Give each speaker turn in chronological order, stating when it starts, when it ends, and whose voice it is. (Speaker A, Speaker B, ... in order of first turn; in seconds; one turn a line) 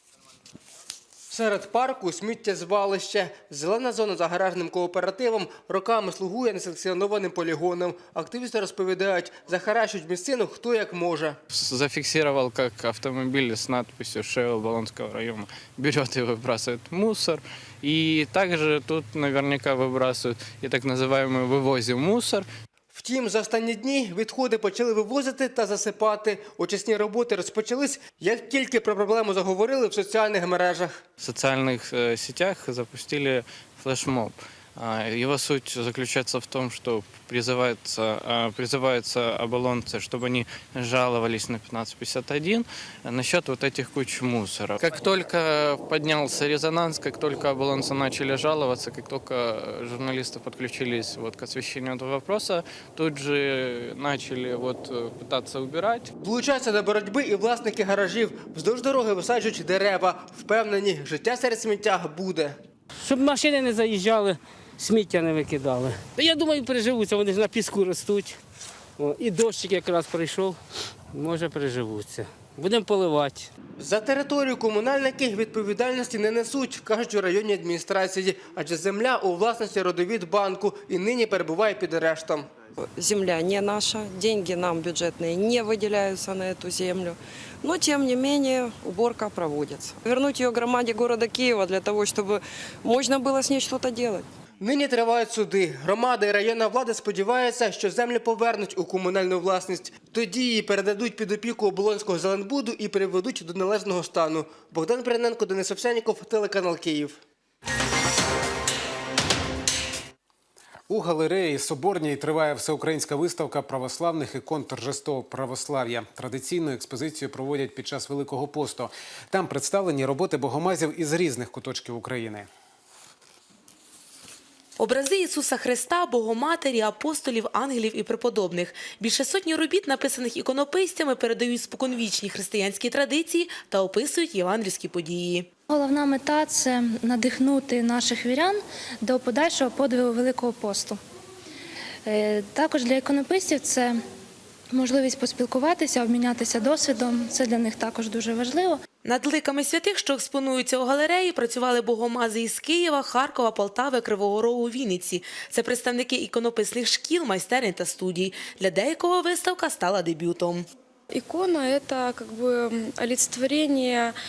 Speaker A: 1.3-11.4
Speaker B: 11.5-22.5
Speaker A: 22.9-31.0
Speaker B: 31.2-56.1
Speaker A: 56.2-62.6
Speaker C: 63.0-68.3
Speaker C: 69.0-70.5
Speaker C: 71.1-73.4
Speaker A: 73.8-82.5
Speaker D: 82.9-94.2
Speaker A: 94.6-107.2
Speaker E: 110.9-122.5
Speaker F: 124.8-135.5
Speaker G: 135.7-141.0
Speaker G: 142.1-144.0
Speaker G: 144.7-148.8
Speaker F: 149.1-160.7
Speaker H: 161.1-164.1